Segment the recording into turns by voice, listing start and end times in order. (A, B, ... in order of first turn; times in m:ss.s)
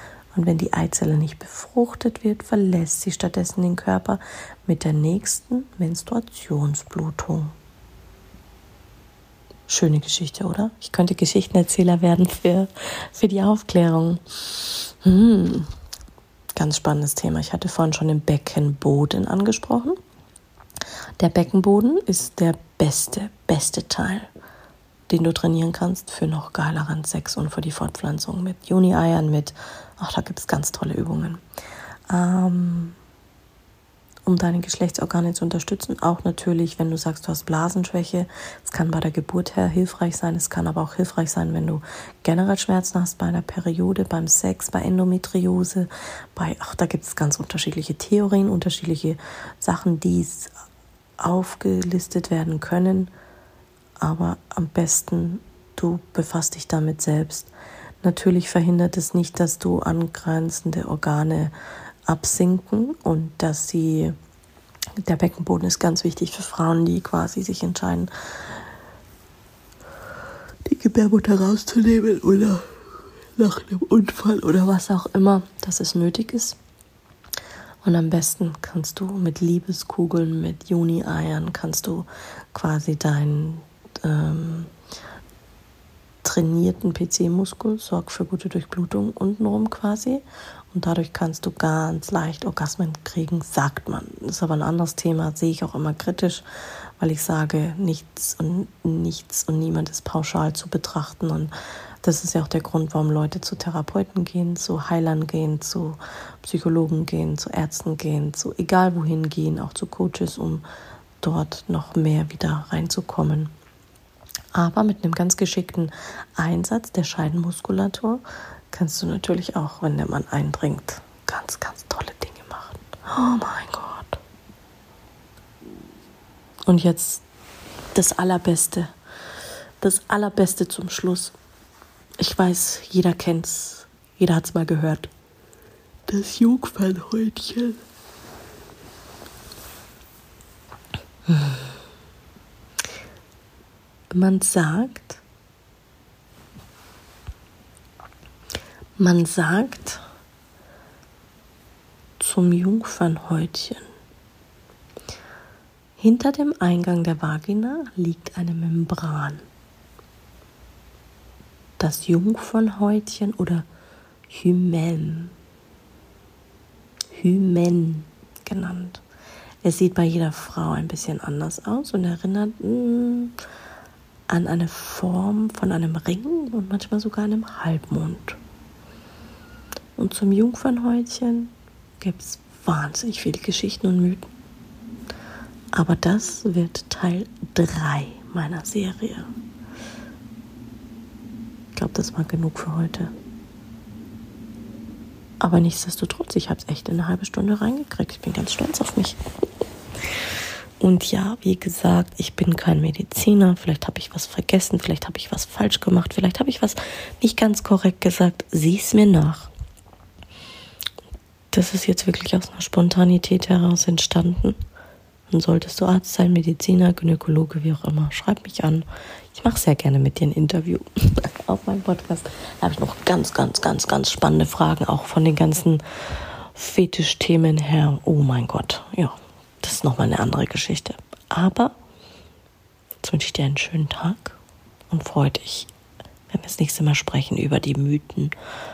0:00.3-0:07.6 A
0:09.7-0:15.7 A
0:16.6-0:20.0 A
0:21.2-0:24.3 A
0:25.1-0:31.4 A
0:32.1-0:33.0 A
0:34.3-0:50.5 A
0:51.2-0:53.1 A
0:54.0-0:57.5 A
0:58.0-1:01.5 A
1:02.1-1:04.2 A
1:05.0-1:08.1 A
1:10.7-1:12.7 A
1:13.4-1:16.6 A
1:17.8-1:24.7 A
1:26.2-1:36.4 A
1:37.0-1:41.5 A
1:42.0-1:50.6 A
1:51.2-1:53.5 A
1:54.6-2:04.2 A
2:06.7-2:07.2 A
2:08.0-2:08.9 A
2:09.8-2:11.4 A
2:12.2-2:15.1 A
2:16.1-2:17.8 A
2:21.3-2:21.7 A
2:24.1-2:25.2 A
2:29.0-2:30.0 A
2:32.2-2:33.9 A
2:36.0-2:39.4 A
2:41.8-2:43.7 A
2:44.3-2:45.3 A
2:47.1-2:49.0 A
2:49.6-2:53.4 A
2:54.3-2:58.4 A
3:00.0-3:04.3 A
3:05.7-3:09.3 A
3:11.7-3:13.1 A
3:15.4-3:19.2 A
3:20.8-3:29.5 A
3:31.5-3:34.6 A
3:35.3-3:45.8 A
3:46.5-3:51.8 A
3:53.0-3:54.4 A
3:54.9-3:55.7 A
3:56.3-3:58.4 A